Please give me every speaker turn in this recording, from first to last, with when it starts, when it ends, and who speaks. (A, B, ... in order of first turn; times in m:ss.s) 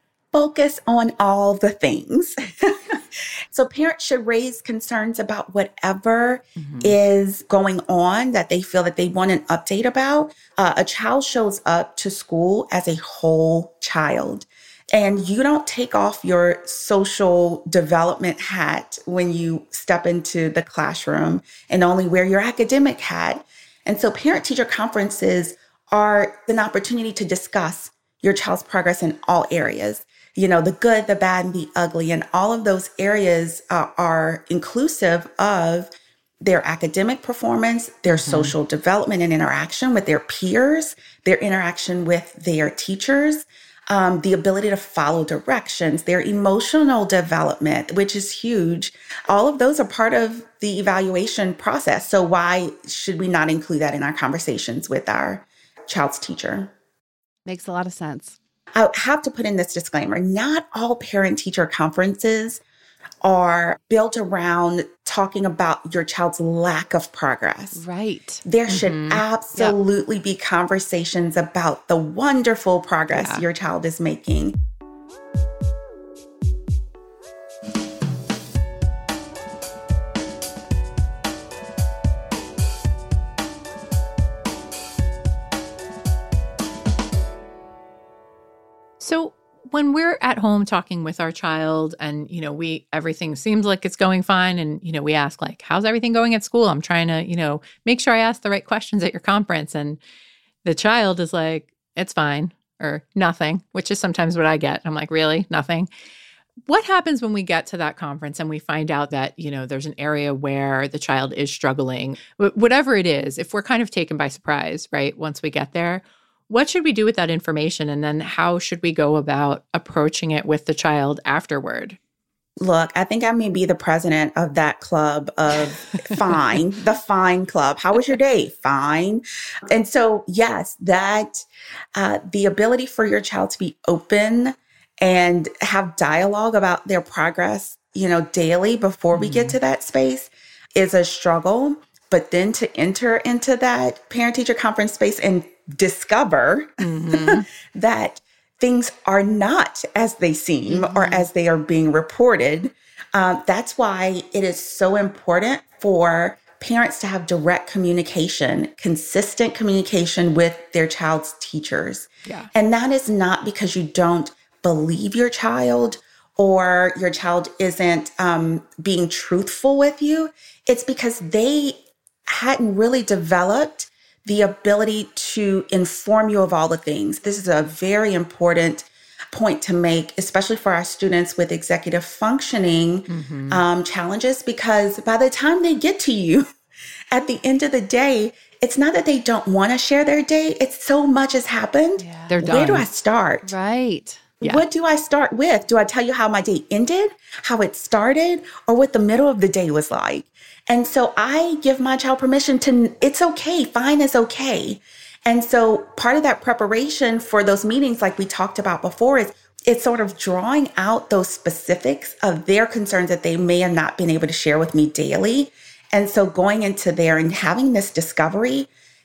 0:00.3-0:35.9 A
0:06.6-0:06.9 B
0:36.4-0:56.7 A
0:38.1-0:38.5 B
0:57.4-0:58.4 C
0:58.7-1:02.6 A
1:03.2-1:07.8 A
1:07.7-1:08.4 C
1:08.4-1:14.6 A
1:08.7-1:09.2 B
1:13.1-1:13.4 B
1:29.0-1:40.0 B
1:40.6-1:45.9 B
1:46.7-2:02.0 B
2:02.6-3:06.5 A
2:19.1-2:19.6 B
2:26.8-2:27.4 B
2:30.7-2:31.3 C
3:03.1-3:03.6 B
3:07.1-3:13.5 A
3:12.0-3:12.4 C
3:12.3-3:12.8 B
3:13.4-3:14.2 C
3:14.4-3:38.7 A